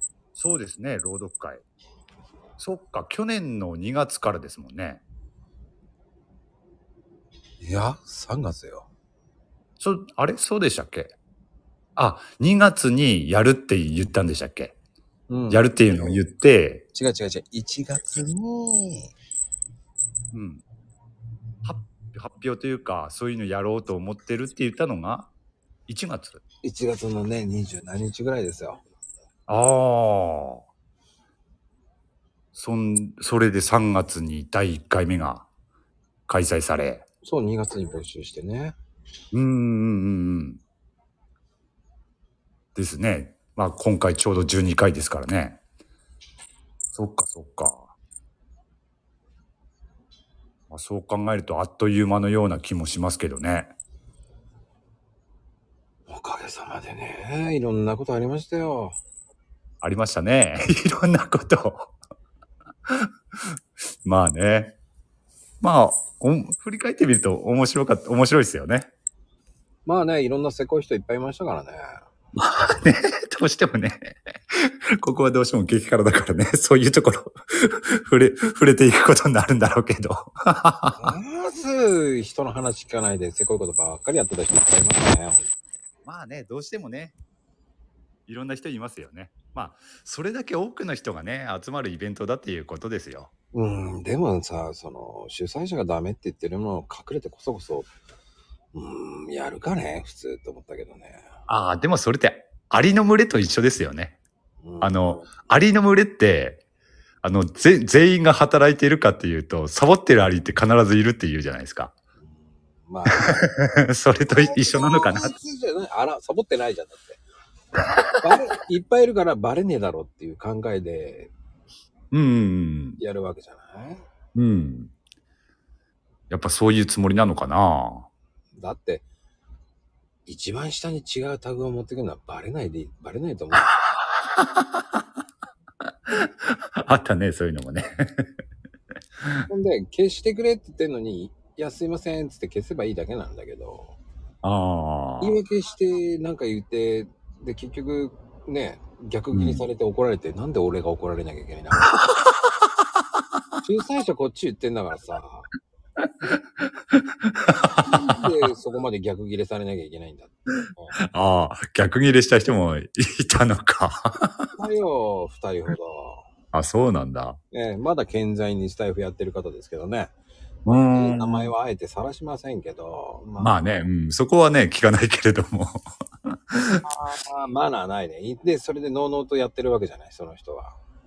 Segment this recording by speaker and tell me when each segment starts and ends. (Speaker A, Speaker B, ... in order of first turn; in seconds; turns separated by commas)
Speaker A: 0.3-1.6, Speaker A: 2.6-5.0, Speaker B: 7.6-8.9, Speaker A: 9.8-11.1, Speaker A: 12.0-14.8, Speaker B: 15.3-16.2, Speaker A: 15.5-16.8, Speaker B: 16.9-19.1, Speaker A: 20.3-20.6, Speaker A: 21.6-25.3, Speaker A: 25.9-26.4, Speaker B: 26.6-28.8, Speaker A: 29.5-30.6, Speaker A: 32.5-35.5, Speaker A: 36.3-37.0, Speaker B: 37.2-38.7, Speaker A: 39.3-40.6, Speaker A: 42.7-45.6, Speaker A: 46.9-47.9, Speaker A: 50.7-53.7, Speaker B: 56.1-59.0, Speaker A: 59.8-61.9, Speaker A: 64.0-64.8, Speaker A: 65.6-68.9, Speaker B: 69.8-72.0, Speaker A: 72.4-81.1, Speaker B: 81.0-85.5, Speaker A: 86.0-87.1, Speaker A: 88.3-93.3, Speaker B: 93.5-97.9, Speaker B: 98.7-101.2, Speaker A: 101.5-104.2, Speaker B: 104.6-105.3, Speaker A: 104.8-106.6, Speaker A: 107.2-111.9, Speaker B: 112.2-113.5, Speaker A: 113.2-115.3, Speaker B: 114.3-117.2, Speaker A: 117.8-118.2, Speaker B: 118.2-121.3, Speaker A: 122.1-123.0, Speaker B: 123.0-124.0, Speaker A: 124.3-124.9, Speaker A: 126.3-128.1, Speaker B: 128.6-129.0, Speaker B: 130.2-133.7, Speaker A: 133.6-135.0, Speaker A: 136.2-138.2, Speaker B: 139.5-143.9, Speaker A: 144.4-145.4, Speaker B: 145.2-151.9, Speaker A: 149.3-149.6, Speaker A: 151.9-152.7, Speaker B: 153.6-155.5, Speaker A: 156.0-158.3, Speaker B: 157.9-160.9, Speaker A: 161.1-164.5, Speaker B: 164.6-166.2, Speaker A: 166.5-167.4, Speaker B: 167.5-170.1, Speaker A: 170.7-171.5, Speaker B: 170.7-173.6, Speaker A: 173.4-176.8, Speaker B: 176.8-180.8